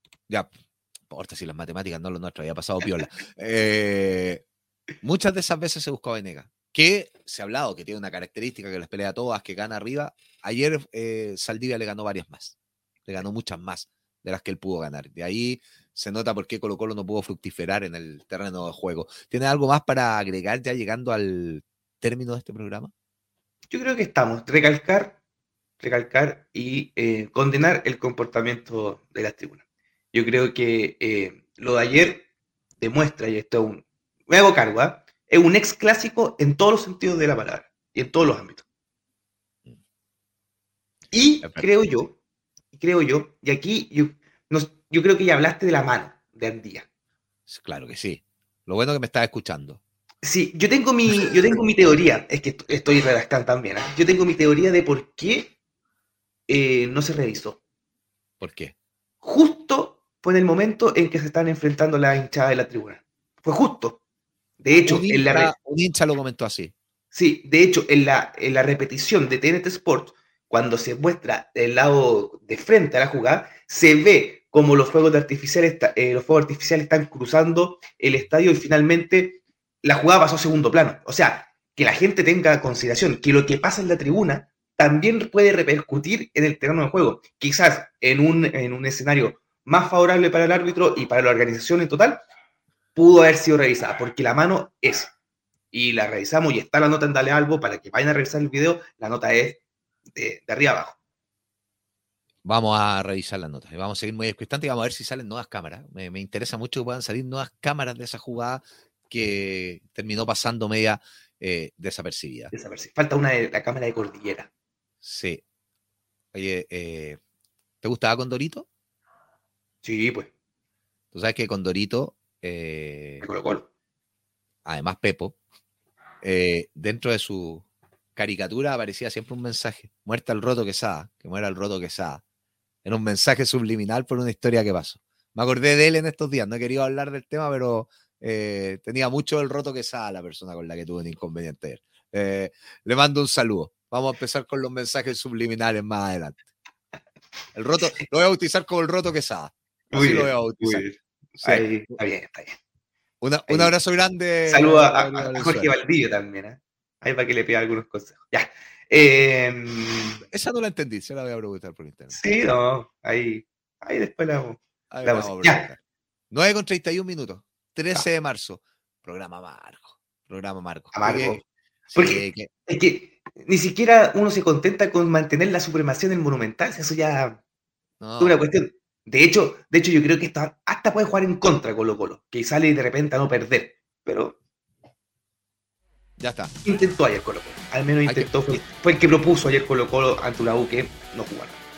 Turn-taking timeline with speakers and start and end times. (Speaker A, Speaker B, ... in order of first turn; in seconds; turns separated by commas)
Speaker A: 1.1-4.4, Speaker A: 5.0-12.6, Speaker A: 13.1-22.9, Speaker B: 23.7-25.2, Speaker B: 25.8-29.6, Speaker B: 30.1-32.3, Speaker B: 32.8-38.6, Speaker B: 41.1-42.2, Speaker A: 41.4-41.7, Speaker B: 42.7-46.9, Speaker A: 47.5-49.8, Speaker B: 50.2-55.5, Speaker B: 56.5-57.6, Speaker A: 58.4-58.7, Speaker B: 59.2-64.0, Speaker B: 64.6-65.5, Speaker A: 64.8-66.7, Speaker B: 67.1-92.2, Speaker B: 93.0-95.1, Speaker B: 95.7-99.6, Speaker B: 100.2-101.0, Speaker A: 102.5-112.5, Speaker B: 112.5-114.5, Speaker A: 115.0-115.4, Speaker A: 116.3-117.2, Speaker A: 117.8-118.7, Speaker B: 119.8-120.3, Speaker A: 121.1-123.3, Speaker B: 123.2-123.7, Speaker A: 124.7-125.3, Speaker A: 126.2-127.7, Speaker A: 128.2-132.2, Speaker A: 132.8-146.4, Speaker A: 147.6-150.9, Speaker B: 149.9-152.6, Speaker A: 151.4-151.9, Speaker A: 153.2-155.7, Speaker B: 153.5-153.7, Speaker B: 154.5-160.2, Speaker A: 160.3-162.4, Speaker B: 162.1-165.7, Speaker A: 164.9-165.8, Speaker A: 166.3-172.5, Speaker B: 170.9-171.4, Speaker B: 172.0-177.4, Speaker A: 178.0-178.4, Speaker B: 178.2-184.4, Speaker A: 186.2-186.5, Speaker B: 186.7-191.6, Speaker A: 188.1-188.6